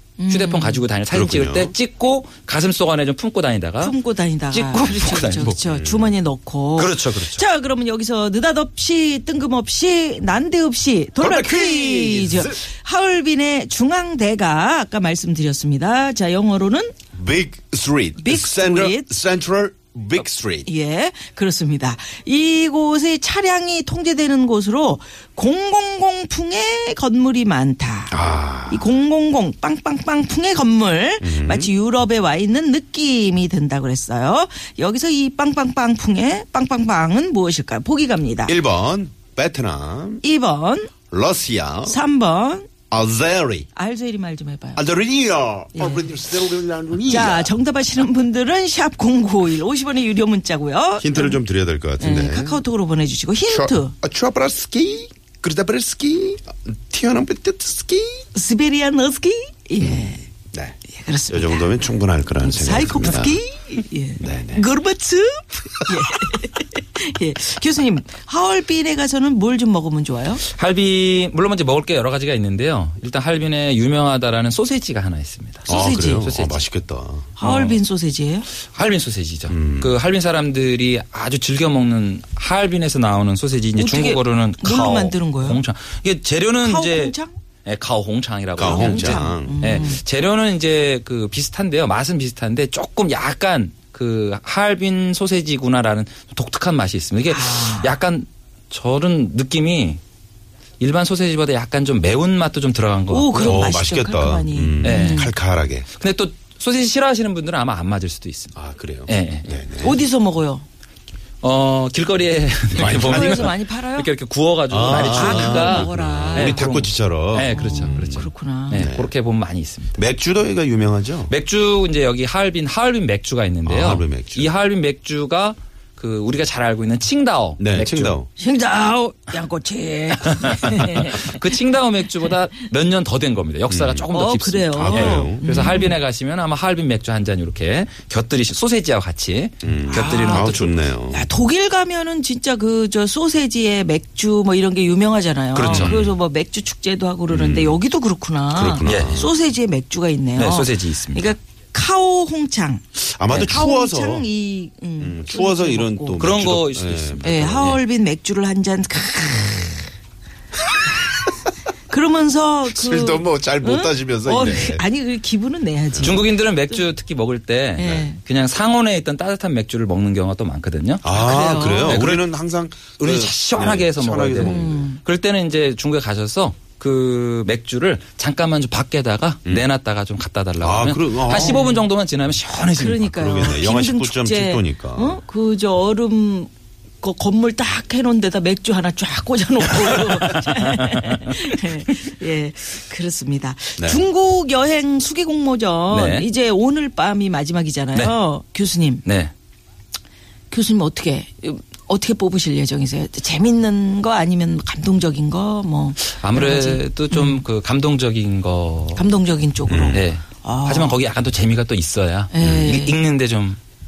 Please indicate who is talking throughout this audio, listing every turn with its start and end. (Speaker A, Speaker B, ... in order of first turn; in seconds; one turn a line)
Speaker A: 0.2-0.9
Speaker B: 0.3-4.0
Speaker C: 1.1-1.7
Speaker A: 3.8-16.9
Speaker B: 4.5-5.6
Speaker C: 5.6-6.1
Speaker B: 6.8-7.4
Speaker C: 11.2-12.6
Speaker C: 17.1-20.7
Speaker A: 18.2-19.1
Speaker A: 20.6-38.6
Speaker C: 28.1-28.9
Speaker C: 31.2-31.7
Speaker C: 38.5-40.2
Speaker A: 40.2-40.9
Speaker C: 41.1-42.0
Speaker A: 41.9-42.7
Speaker C: 42.9-43.7
Speaker A: 43.7-44.8
Speaker C: 44.8-47.5
Speaker A: 45.8-46.1
Speaker A: 47.0-51.4
Speaker C: 51.0-52.6
Speaker A: 52.0-54.0
Speaker C: 53.5-58.2
Speaker A: 58.3-60.3
Speaker C: 59.8-60.8
Speaker A: 60.9-70.4
Speaker C: 61.3-63.4
Speaker C: 64.2-64.6
Speaker B: 70.4-76.6
Speaker A: 75.7-76.3
Speaker C: 75.7-77.3
Speaker A: 77.4-78.5
Speaker B: 77.4-77.8
Speaker B: 78.7-100.0
Speaker C: 79.5-80.0
Speaker A: 83.8-85.6
Speaker A: 86.6-87.4
Speaker C: 88.6-89.9
Speaker A: 88.6-90.0
Speaker A: 97.3-97.9
Speaker B: 100.8-103.7
Speaker A: 103.1-105.3
Speaker C: 103.4-105.9
Speaker B: 104.8-105.3
Speaker B: 106.0-109.6
Speaker C: 108.6-110.0
Speaker A: 109.8-110.7
Speaker B: 111.4-120.0
Speaker C: 112.7-113.5
Speaker A: 112.8-114.1
Speaker C: 114.7-119.1
Speaker A: 114.9-116.6
Speaker A: 117.5-118.9
Speaker C: 120.0-121.3
Speaker B: 121.3-128.2
Speaker C: 123.7-124.5
Speaker C: 127.6-128.3
Speaker A: 128.4-131.6
Speaker B: 130.2-140.8
Speaker C: 133.7-134.1
Speaker A: 134.1-136.0
Speaker C: 134.7-135.7
Speaker C: 139.6-141.2
Speaker A: 139.9-140.6
Speaker A: 141.1-152.8
Speaker B: 145.6-146.0
Speaker C: 145.6-146.2
Speaker C: 147.3-147.8
Speaker C: 148.5-149.3
Speaker B: 148.8-149.3
Speaker B: 150.4-151.3
Speaker C: 153.0-154.3
Speaker A: 153.3-156.2
Speaker C: 155.0-157.8
Speaker B: 156.2-157.8
Speaker A: 157.2-159.9
Speaker A: 161.9-166.8
Speaker C: 162.7-164.8
Speaker C: 165.9-166.2
Speaker B: 166.0-171.1
Speaker A: 167.8-168.2
Speaker C: 171.0-174.9
Speaker A: 171.1-172.0
Speaker B: 171.7-172.3
Speaker B: 173.0-183.6
Speaker A: 174.4-175.0
Speaker C: 180.6-181.6
Speaker A: 181.3-181.9
Speaker A: 182.7-199.0
Speaker C: 183.1-185.2
Speaker B: 190.1-191.3
Speaker C: 193.8-194.1
Speaker B: 195.9-196.3
Speaker B: 199.0-199.3
Speaker A: 200.5-207.4
Speaker B: 206.0-209.1
Speaker A: 209.0-211.0
Speaker C: 209.7-210.1
Speaker B: 209.9-213.6
Speaker A: 212.3-213.0
Speaker C: 212.4-212.8